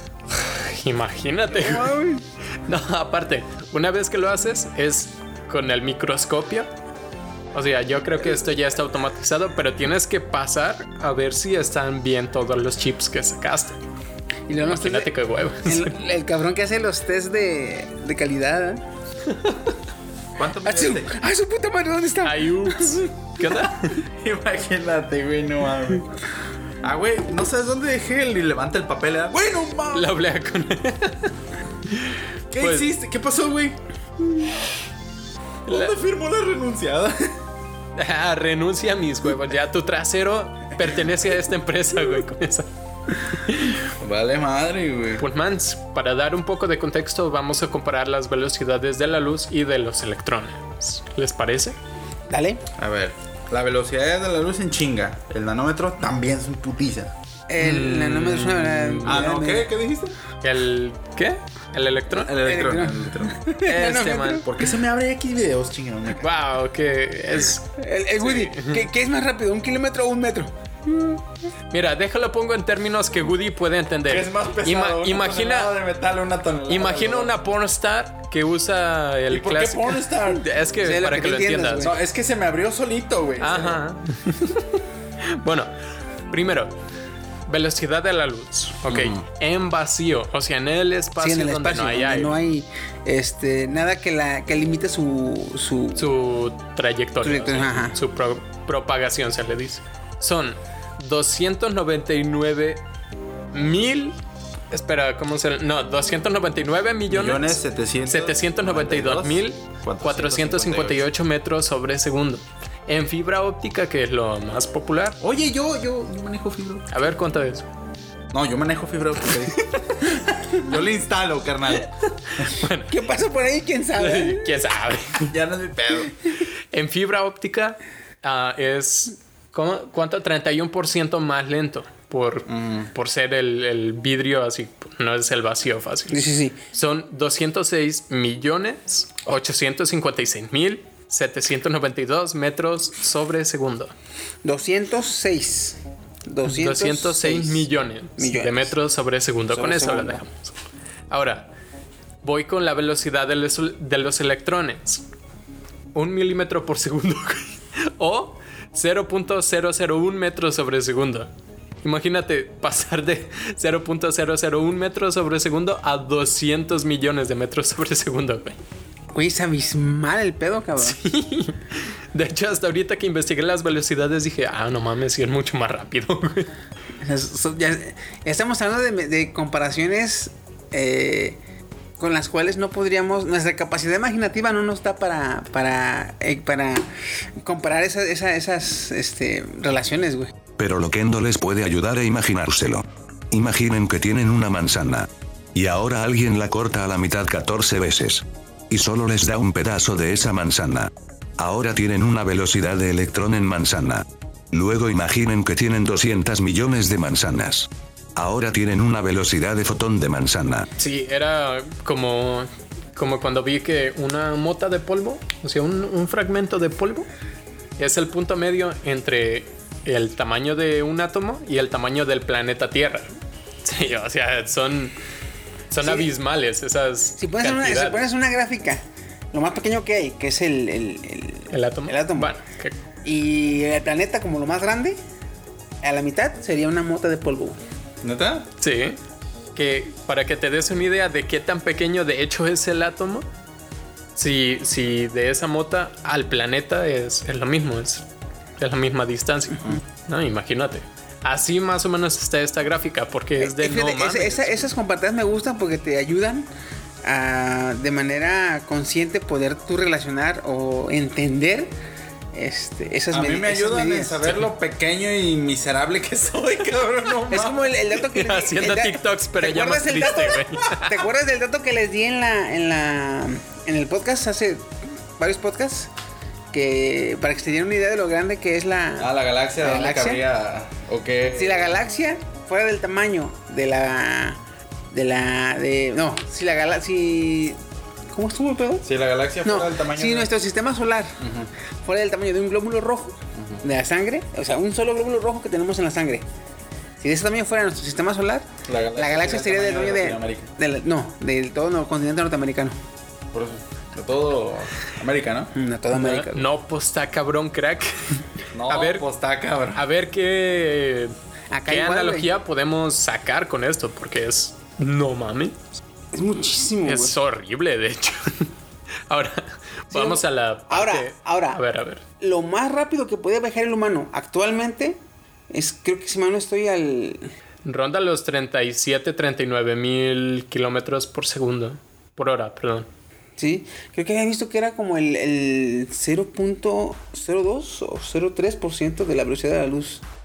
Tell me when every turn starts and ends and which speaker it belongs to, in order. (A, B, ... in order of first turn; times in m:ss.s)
0:00.4-0:02.0 A
0:01.5-0:02.2 B
0:02.6-0:06.7 A
0:07.5-0:13.8 A
0:14.5-0:18.8 B
0:14.6-0:15.9 A
0:20.4-0:21.2 C
0:20.6-0:23.5 B
0:22.2-0:24.0 A
0:24.0-0:26.1 C
0:26.8-0:30.2 C
0:29.9-0:31.3 A
0:31.9-0:32.9 A
0:32.5-0:33.8 C
0:35.7-0:35.9 A
0:35.7-0:37.3 C
0:38.0-0:42.7 A
0:43.2-0:43.8 A
0:44.0-0:45.2 C
0:45.2-0:51.8 A
0:52.3-0:52.6 B
0:52.8-0:57.1 C
0:57.5-0:59.7 B
0:57.6-0:59.2 A
0:59.0-1:00.1 C
1:00.4-1:02.4 A
1:02.1-1:03.4 C
1:02.4-1:04.5 B
1:03.6-1:04.4 A
1:04.4-1:06.2 C
1:06.2-1:08.8 A
1:07.8-1:11.2 B
1:11.7-1:15.7 A
1:14.1-1:17.3 C
1:16.7-1:21.9 A
1:19.3-1:20.4 C
1:20.8-1:22.0 B
1:21.8-1:23.8 C
1:23.4-1:25.7 A
1:26.3-1:26.8 A
1:27.5-1:32.4 A
1:28.9-1:29.2 C
1:31.2-1:36.1 B
1:36.0-1:42.8 A
1:37.2-1:38.0 B
1:43.5-1:44.2 A
1:44.7-1:55.2 A
1:47.1-1:51.0 C
1:55.2-1:56.9 C
1:56.9-1:57.7 A
1:58.3-2:02.5 C
2:02.4-2:03.0 A
2:02.9-2:04.5 B
2:03.9-2:05.3 A
2:05.2-2:06.1 C
2:06.7-2:23.9 A
2:12.5-2:12.9 C
2:16.1-2:16.6 B
2:24.4-2:28.7 B
2:26.4-2:30.5 A
2:29.5-2:30.2 B
2:31.1-2:31.5 A
2:32.2-2:35.0 A
2:35.9-2:41.3 A
2:41.8-2:48.6 A
2:49.1-2:51.0 B
2:50.8-2:56.5 A
2:57.0-3:01.4 B
3:02.0-3:06.9 B
3:07.4-3:10.3 B
3:10.6-3:30.7 D
3:30.8-3:37.1 A
3:37.8-3:43.1 A
3:43.6-3:44.9 A
3:45.7-3:48.0 A
3:45.8-3:46.1 B
3:47.2-3:52.4 B
3:51.5-3:52.8 A
3:53.0-3:55.0 B
3:55.8-3:57.6 B
3:58.0-3:58.5 C
3:58.6-3:59.0 A
3:59.6-4:03.3 A
4:04.1-4:08.0 A
4:08.6-4:14.6 A
4:13.4-4:16.5 B
4:17.0-4:21.7 B
4:22.3-4:24.3 B
4:23.1-4:27.6 C
4:27.3-4:35.9 B
4:27.9-4:31.0 A
4:36.5-4:40.2 B
4:39.0-4:41.7 C
4:41.3-4:48.9 B
4:48.8-4:50.3 C
4:49.4-4:51.2 B
4:51.2-4:51.5 C
4:51.8-4:56.3 B
4:57.0-5:02.8 B
4:58.6-5:00.5 C
5:03.3-5:05.5 C
5:05.5-5:06.5 B
5:05.9-5:09.0 A
5:08.5-5:09.8 C
5:09.8-5:11.1 A
5:11.5-5:12.3 B
5:11.7-5:15.6 A
5:16.1-5:17.2 B
5:16.8-5:18.5 A
5:19.1-5:22.0 A
5:19.9-5:21.6 B
5:22.2-5:27.3 B
5:27.6-5:32.9 A
5:33.4-5:40.0 B